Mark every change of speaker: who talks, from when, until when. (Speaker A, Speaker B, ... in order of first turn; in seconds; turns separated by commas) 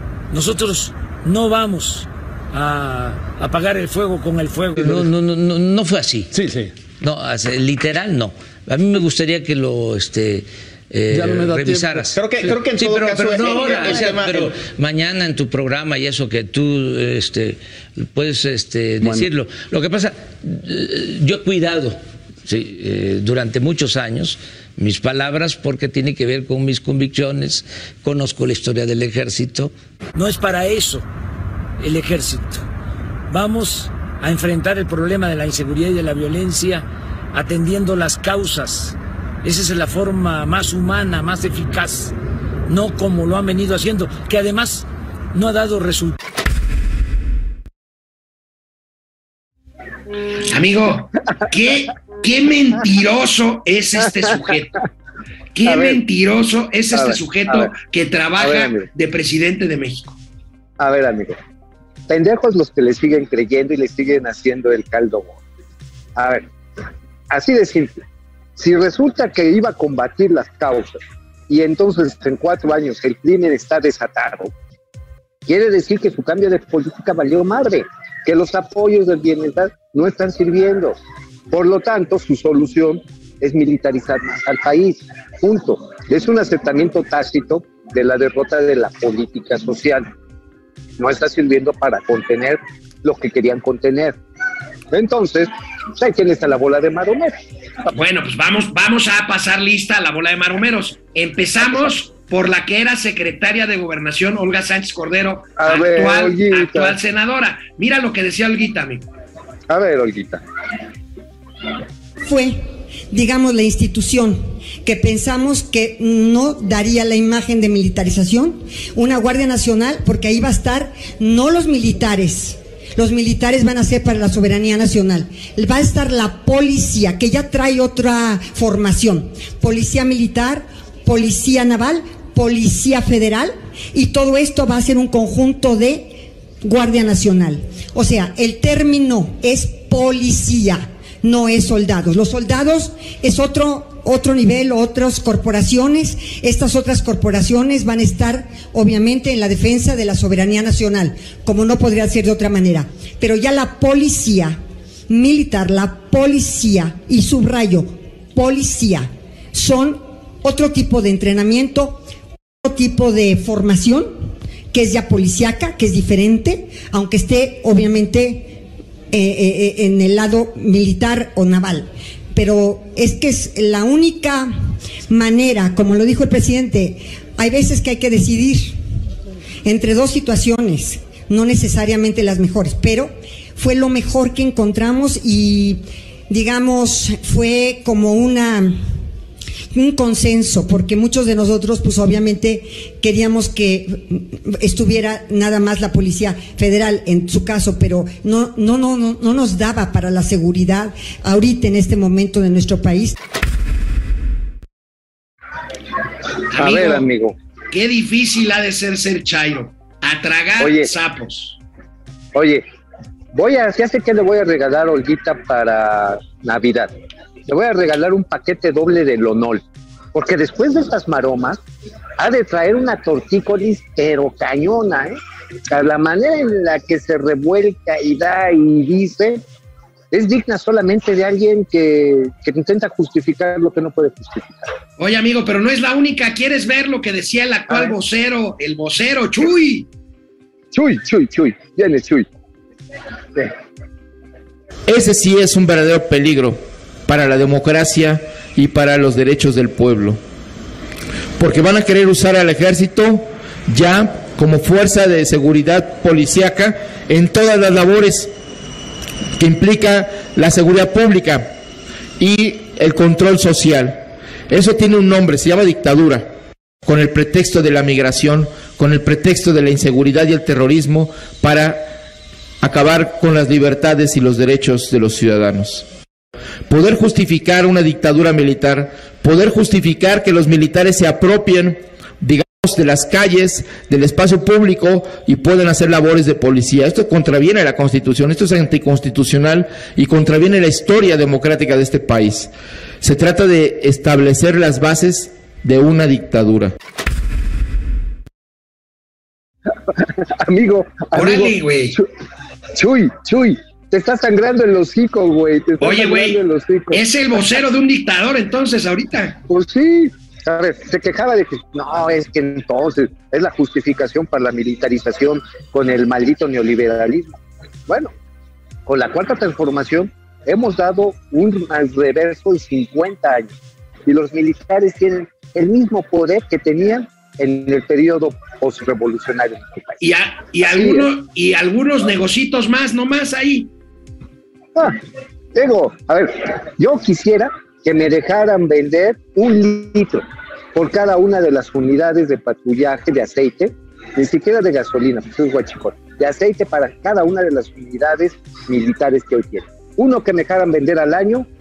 Speaker A: 0.3-6.3, Speaker B: 6.3-6.7, Speaker A: 7.0-31.1, Speaker B: 11.1-14.5, Speaker B: 19.0-19.3, Speaker A: 31.8-32.6, Speaker A: 33.3-42.1, Speaker A: 42.7-46.2, Speaker C: 50.5-54.8, Speaker C: 55.5-60.2, Speaker D: 55.7-56.0, Speaker D: 56.9-57.7, Speaker D: 58.4-58.9, Speaker D: 60.8-61.4, Speaker D: 62.1-65.4, Speaker D: 66.2-66.5, Speaker D: 67.3-68.0, Speaker D: 68.6-74.5, Speaker D: 75.5-81.0, Speaker D: 81.5-90.1, Speaker D: 91.0-94.2, Speaker D: 94.9-97.4, Speaker C: 97.9-109.1, Speaker D: 101.6-102.0, Speaker D: 105.6-107.0, Speaker D: 109.7-110.4, Speaker E: 112.2-112.6, Speaker E: 113.1-162.0, Speaker E: 162.6-164.2, Speaker E: 164.7-168.6, Speaker E: 169.1-174.5, Speaker E: 175.1-178.8, Speaker E: 179.7-188.8, Speaker E: 189.7-203.2, Speaker C: 206.5-207.1, Speaker D: 206.6-207.4, Speaker C: 207.7-211.6, Speaker D: 210.6-210.9, Speaker D: 212.3-212.7, Speaker D: 213.3-216.9, Speaker D: 217.5-221.6, Speaker D: 222.2-229.4, Speaker D: 230.1-234.7, Speaker C: 235.0-239.9, Speaker D: 237.7-238.0, Speaker D: 240.7-242.3, Speaker F: 244.9-250.2, Speaker F: 251.4-258.3, Speaker F: 259.4-261.5, Speaker F: 262.2-266.3, Speaker F: 266.9-271.9, Speaker F: 272.6-275.9, Speaker F: 276.7-292.5, Speaker F: 293.0-296.7, Speaker D: 299.9-302.1, Speaker C: 301.1-302.0, Speaker D: 302.8-307.0, Speaker C: 305.8-306.4, Speaker C: 306.9-309.4, Speaker D: 309.5-318.1, Speaker D: 318.9-323.5, Speaker D: 324.1-330.0, Speaker C: 330.0-333.7, Speaker D: 330.6-331.1, Speaker D: 334.8-335.0, Speaker D: 335.5-351.5